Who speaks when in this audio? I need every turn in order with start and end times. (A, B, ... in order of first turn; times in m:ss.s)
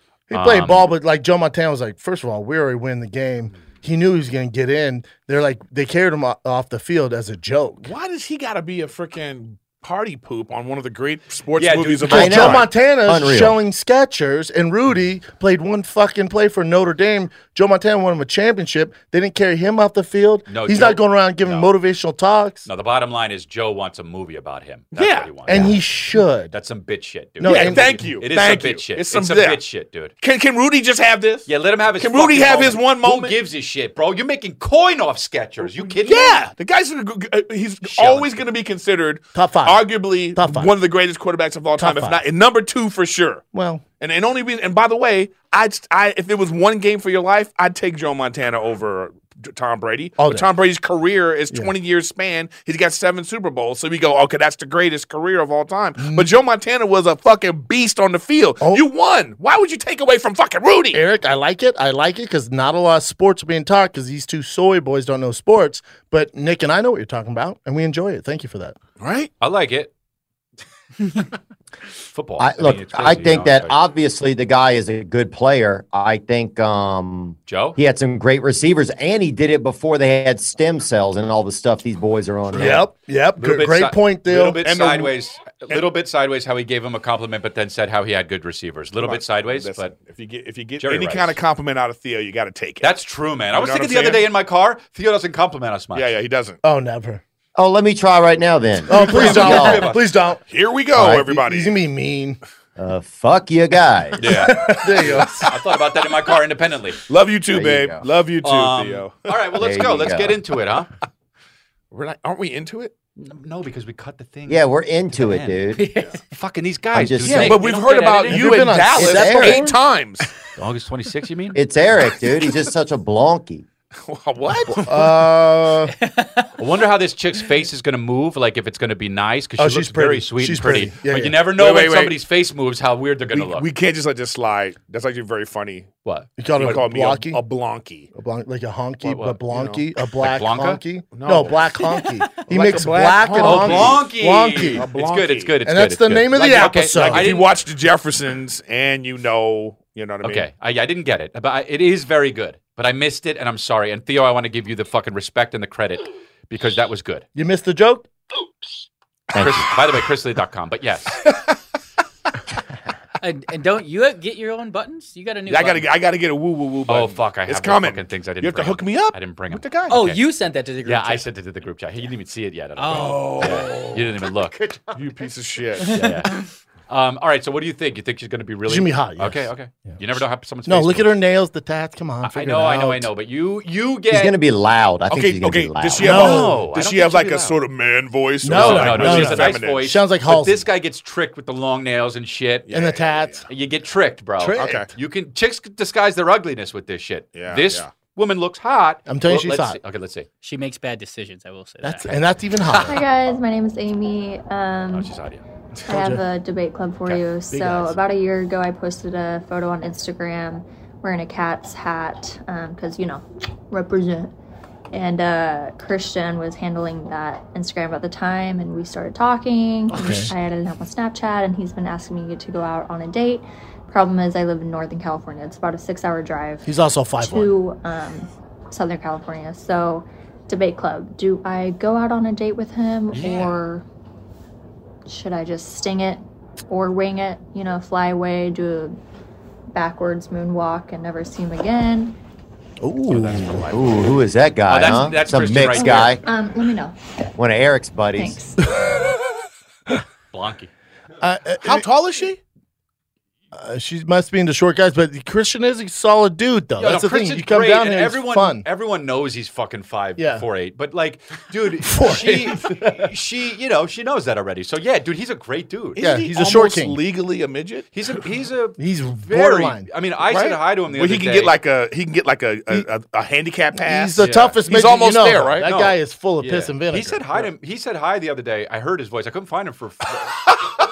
0:00.3-0:07.9 A
0:00.3-0:00.9 B
0:07.8-0:12.6 C
0:11.6-0:12.3 B
0:12.0-0:22.7 A
0:12.1-0:13.6 D
0:20.5-0:21.7 B
0:22.7-0:25.8 B
0:24.9-0:25.6 C
0:25.5-0:26.5 A
0:26.5-0:30.1 B
0:27.4-0:28.1 A
0:27.4-0:29.6 C
0:30.2-0:33.4 C
0:31.5-0:36.4 B
0:36.0-0:43.4 C
0:37.9-0:38.3 B
0:39.4-0:40.8 A
0:41.8-0:42.2 A
0:43.5-0:43.8 A
0:44.0-1:01.0 C
0:50.2-0:50.5 A
0:56.0-0:56.3 A
1:00.9-1:08.8 A
1:09.0-1:09.3 C
1:09.4-1:09.9 B
1:12.1-1:13.8 B
1:12.4-1:22.8 D
1:17.5-1:17.8 B
1:22.5-1:22.8 B
1:22.5-1:24.6 A
1:23.4-1:29.9 B
1:24.6-1:25.1 C
1:29.0-1:32.9 C
1:30.8-1:31.4 B
1:32.8-1:36.1 B
1:33.5-1:34.2 C
1:35.9-1:36.6 C
1:36.6-1:37.2 A
1:37.6-1:39.9 D
1:38.9-1:40.4 A
1:38.9-1:40.1 B
1:40.5-1:41.8 C
1:40.9-1:42.4 A
1:42.8-1:44.2 D
1:44.2-1:47.0 B
1:44.2-1:45.5 A
1:47.1-1:49.3 C
1:47.5-1:48.0 D
1:48.4-1:50.9 B
1:49.6-1:50.4 D
1:51.9-1:52.9 C
1:53.2-1:55.6 B
1:54.5-1:55.9 D
1:55.7-1:56.2 E
1:56.3-1:58.7 B
1:56.9-1:57.6 D
1:57.2-2:00.3 C
1:58.3-1:59.8 A
1:59.0-1:59.6 D
2:00.6-2:01.6 B
2:01.5-2:03.7 D
2:04.0-2:04.9 C
2:04.7-2:05.9 A
2:04.7-2:05.1 E
2:05.9-2:06.6 E
2:06.6-2:13.7 B
2:09.6-2:11.4 A
2:11.5-2:12.2 C
2:13.3-2:15.9 C
2:16.0-2:16.8 B
2:16.4-2:17.4 A
2:16.6-2:18.1 C
2:18.1-2:24.9 A
2:19.0-2:19.4 B
2:19.5-2:19.8 C
2:20.2-2:20.8 B
2:21.1-2:21.8 C
2:21.9-2:22.4 E
2:22.5-2:24.1 C
2:23.4-2:27.5 B
2:24.7-2:25.6 C
2:25.6-2:27.5 A
2:26.4-2:30.5 C
2:30.2-2:37.2 B
2:37.4-2:38.1 A
2:39.4-2:39.6 D
2:39.4-2:41.3 B
2:43.2-2:45.9 E
2:45.5-2:50.0 C
2:46.9-2:50.2 B
2:49.9-2:51.2 E
2:50.8-2:54.6 B
2:52.8-2:53.8 E
2:52.9-2:54.0 C
2:55.0-2:56.0 C
2:55.8-2:56.4 E
2:55.9-3:01.1 B
2:58.7-3:00.0 A
3:00.7-3:03.1 A
3:02.2-3:04.4 B
3:04.1-3:06.2 D
3:05.1-3:09.9 C
3:06.0-3:07.6 B
3:06.0-3:06.6 A
3:08.4-3:10.6 A
3:08.5-3:12.7 B
3:12.7-3:13.4 C
3:12.7-3:13.4 A
3:13.5-3:20.3 B
3:14.4-3:14.9 A
3:14.6-3:14.9 C
3:17.4-3:17.9 C
3:19.1-3:19.8 A
3:20.4-3:22.2 E
3:21.8-3:23.0 A
3:22.8-3:25.1 F
3:24.9-3:25.4 B
3:25.9-3:26.2 A
3:25.9-3:34.3 F
3:27.1-3:28.0 A
3:34.9-3:46.7 F
3:39.9-3:40.3 A
3:46.6-3:47.5 A
3:47.2-3:53.8 F
3:53.1-3:53.6 B
3:55.1-3:59.0 F
3:59.7-4:02.2 F
4:02.8-4:03.8 A
4:03.1-4:04.0 B
4:03.7-4:06.2 D
4:04.7-4:06.2 B
4:05.7-4:07.0 F
4:07.4-4:08.4 D
4:08.2-4:08.6 F
4:08.7-4:09.2 A
4:10.3-4:10.7 B
4:11.2-4:11.9 A
4:11.6-4:12.4 C
4:13.5-4:18.6 A
4:16.8-4:26.0 B
4:20.2-4:20.4 A
4:21.8-4:23.0 A
4:26.0-4:27.9 C
4:26.0-4:27.0 A
4:27.9-4:31.6 B
4:28.8-4:29.9 A
4:30.3-4:35.9 C
4:33.8-4:37.2 A
4:34.2-4:34.6 B
4:36.4-4:40.4 B